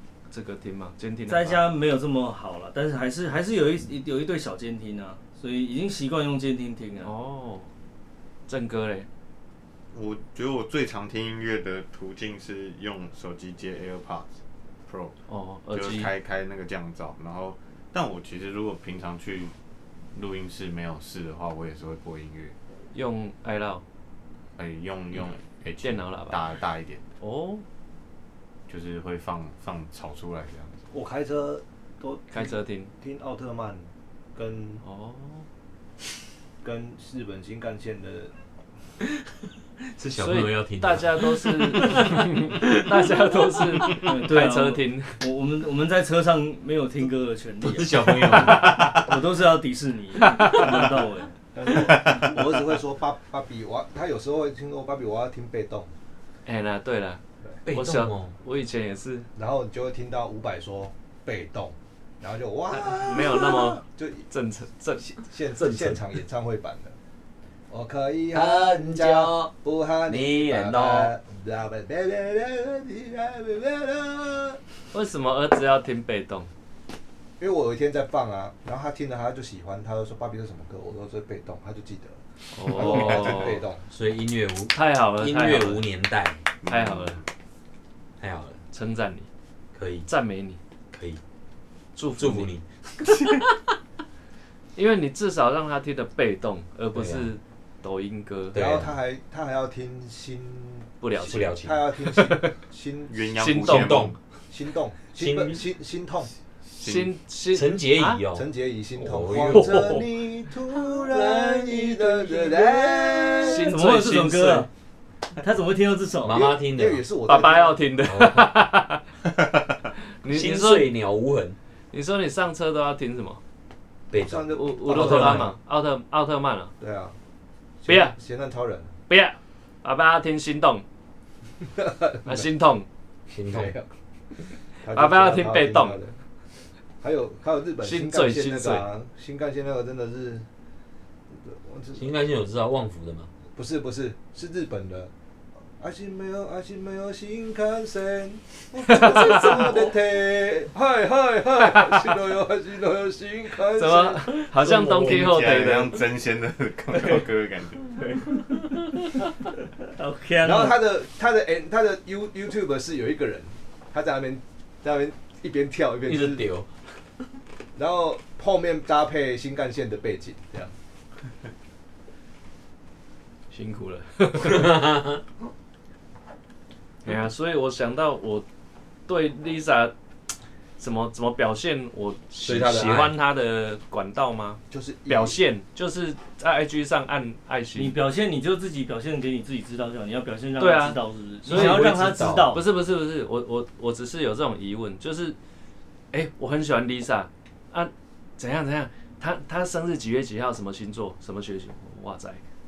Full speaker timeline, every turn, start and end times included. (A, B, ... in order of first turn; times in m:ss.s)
0:00.3-0:01.6 A
0:01.3-0:07.1 B
0:07.0-0:07.7 A
0:08.5-0:09.1 A
0:09.9-0:14.3 C
0:14.9-0:15.2 C
0:15.3-0:16.1 A
0:15.7-0:19.5 C
0:20.1-0:22.5 C
0:22.9-0:23.8 A
0:24.6-0:27.0 C
0:25.8-0:26.5 A
0:27.2-0:27.6 A
0:28.7-0:30.9 C
0:30.9-0:34.8 D
0:32.3-0:32.9 A
0:34.8-0:35.5 A
0:36.6-0:38.3 D
0:39.9-0:43.0 E
0:40.2-0:45.2 A
0:43.8-0:44.1 E
0:44.0-0:51.3 B
0:47.6-0:49.2 E
0:50.2-0:50.8 A
0:50.5-0:50.8 E
0:51.5-0:55.9 D
0:51.7-0:52.3 C
0:56.5-0:59.3 A
0:57.6-0:58.3 E
0:59.4-1:04.3 D
1:02.7-1:05.1 A
1:05.0-1:07.0 D
1:05.6-1:06.0 E
1:07.7-1:14.6 D
1:08.3-1:09.5 E
1:10.1-1:11.1 E
1:14.9-1:16.5 A
1:17.4-1:23.8 D
1:22.5-1:23.6 A
1:23.9-1:26.4 E
1:24.7-1:25.8 A
1:26.6-1:27.2 C
1:26.7-1:27.2 A
1:28.2-1:28.6 E
1:28.7-1:29.3 A
1:29.8-1:30.1 E
1:30.1-1:30.6 A
1:30.9-1:31.2 E
1:32.0-1:32.5 A
1:32.2-1:32.6 E
1:33.2-1:33.5 E
1:34.8-1:38.6 A
1:36.9-1:37.3 E
1:38.5-1:39.0 E
1:38.6-1:43.3 D
1:41.0-1:41.5 A
1:41.2-1:41.8 E
1:42.1-1:42.5 A
1:43.1-1:44.2 C
1:43.4-1:44.1 A
1:43.6-1:44.2 E
1:44.5-1:46.3 D
1:45.2-1:45.6 E
1:46.8-1:48.2 A
1:46.8-1:47.1 C
1:47.5-1:50.1 E
1:48.3-1:53.7 D
1:51.1-1:54.7 B
1:53.4-1:54.7 A
1:55.4-1:56.5 B
1:56.2-1:57.0 E
1:56.3-1:57.8 D
1:57.3-1:59.0 A
1:58.1-1:58.5 E
2:00.2-2:00.9 A
2:00.3-2:01.6 E
2:01.9-2:03.4 A
2:04.1-2:05.5 E
2:04.1-2:05.5 D
2:04.5-2:06.7 A
2:06.8-2:07.2 D
2:07.8-2:08.9 D
2:07.9-2:08.2 A
2:09.1-2:10.8 A
2:11.6-2:12.5 D
2:12.3-2:12.9 A
2:13.3-2:13.8 E
2:13.5-2:13.9 D
2:14.8-2:16.1 D
2:14.9-2:16.0 A
2:17.0-2:20.5 D
2:17.8-2:18.9 A
2:21.3-2:22.1 D
2:22.0-2:23.3 E
2:23.6-2:25.1 D
2:25.8-2:34.4 D
2:28.9-2:29.7 A
2:33.7-2:36.0 A
2:34.6-2:35.2 E
2:34.7-2:38.1 C
2:38.4-2:39.2 E
2:39.9-2:40.8 B
2:40.4-2:46.5 D
2:46.0-2:46.7 E
2:47.8-2:50.7 D
2:53.5-2:54.8 A
2:54.4-2:55.2 E
2:57.0-2:58.4 A
2:59.1-2:59.9 A
3:00.8-3:08.0 A
3:02.4-3:03.2 E
3:04.7-3:05.4 D
3:07.8-3:12.6 B
3:10.6-3:11.9 A
3:11.5-3:12.6 E
3:12.5-3:15.4 A
3:16.1-3:22.4 A